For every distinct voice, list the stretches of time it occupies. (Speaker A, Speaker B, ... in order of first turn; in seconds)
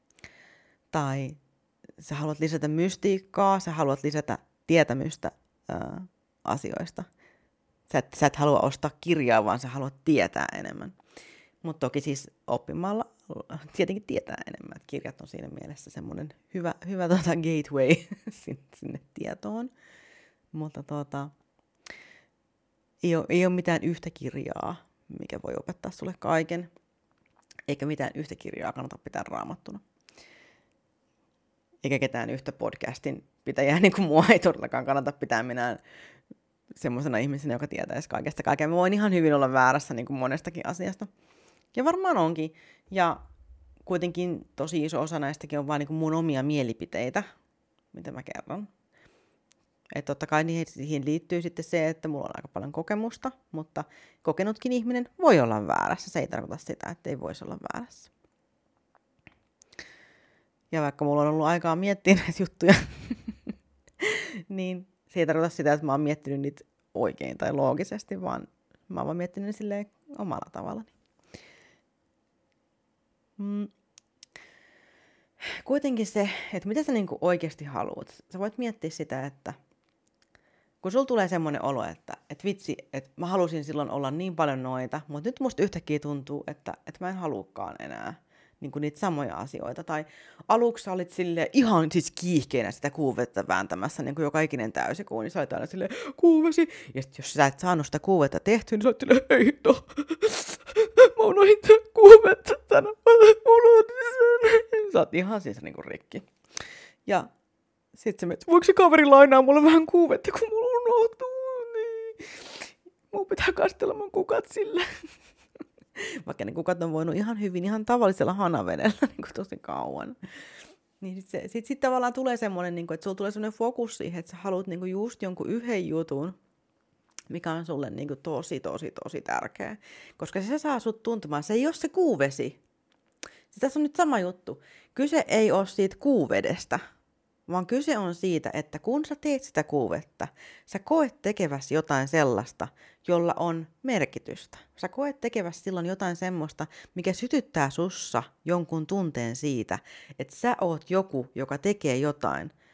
Speaker A: 0.9-1.4, 2.0-7.1, 7.9-10.9, 11.6-19.7, 20.5-21.3, 23.0-26.7, 27.7-29.8, 31.8-35.8, 36.8-41.1, 41.7-43.2, 43.9-47.3, 47.9-48.7, 49.9-58.1, 60.7-63.5, 64.0-70.9, 73.4-73.7, 75.4-79.6, 80.8-106.3, 108.0-114.9, 116.0-120.2, 121.0-126.4, 127.3-132.6, 133.5-136.8, 137.5-152.5